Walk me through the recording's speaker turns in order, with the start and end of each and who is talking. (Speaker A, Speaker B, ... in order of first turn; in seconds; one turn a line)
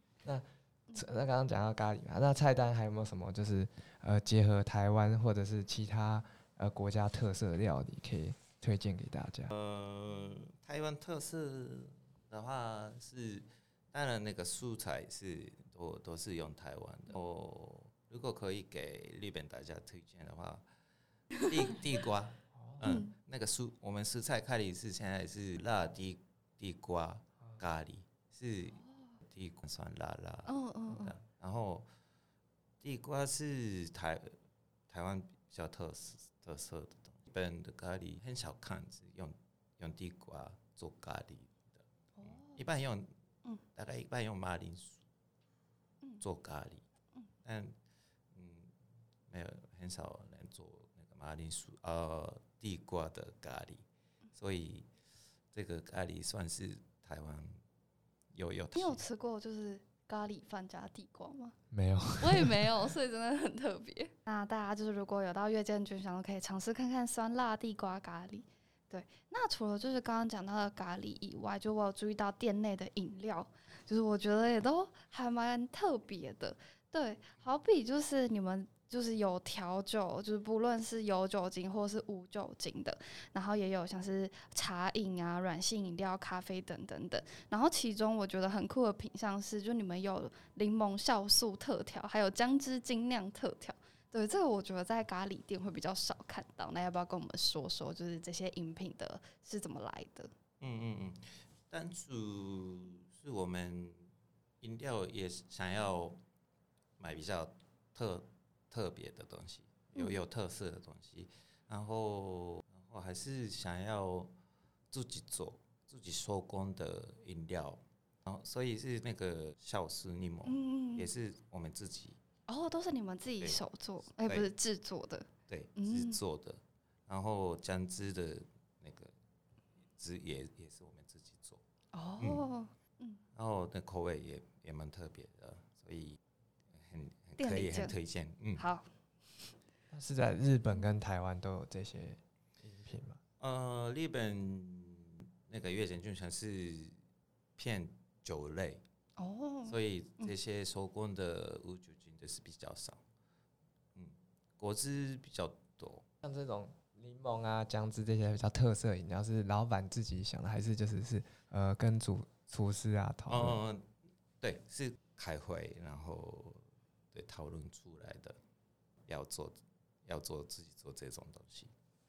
Speaker A: 0.2-9.5
Speaker B: 9.5-20.6
Speaker B: 21.4-31.9
Speaker A: 22.5-22.8
Speaker C: 22.8-23.1
Speaker C: 28.8-29.1
Speaker C: 30.5-31.1
Speaker B: 32.8-34.4
Speaker B: 34.9-43.1
Speaker C: 42.2-42.6
Speaker B: 43.7-45.0
Speaker B: 46.2-46.8
Speaker B: 47.4-47.8
Speaker B: 48.3-48.7
Speaker B: 49.3-53.8
Speaker B: 54.4-54.9
Speaker B: 55.5-57.6
Speaker B: 58.3-59.0
Speaker C: 58.8-61.6
Speaker A: 61.7-62.6
Speaker C: 62.1-100.3
Speaker B: 100.6-104.1
Speaker B: 104.6-106.2
Speaker B: 107.0-114.3
Speaker B: 114.9-122.2
Speaker C: 120.5-121.1
Speaker C: 122.5-126.2
Speaker B: 124.1-124.5
Speaker B: 125.5-129.1
Speaker B: 130.0-131.6
Speaker C: 131.9-133.2
Speaker B: 132.2-132.4
Speaker B: 133.3-136.2
Speaker B: 136.7-138.6
Speaker C: 137.4-137.9
Speaker C: 138.6-139.5
Speaker A: 139.9-143.2
Speaker B: 143.4-147.0
Speaker B: 147.6-148.8
Speaker C: 149.2-150.3
Speaker B: 149.7-153.0
Speaker B: 153.9-156.1
Speaker A: 156.2-163.6
Speaker B: 163.3-163.9
Speaker B: 164.4-168.4
Speaker B: 169.1-171.7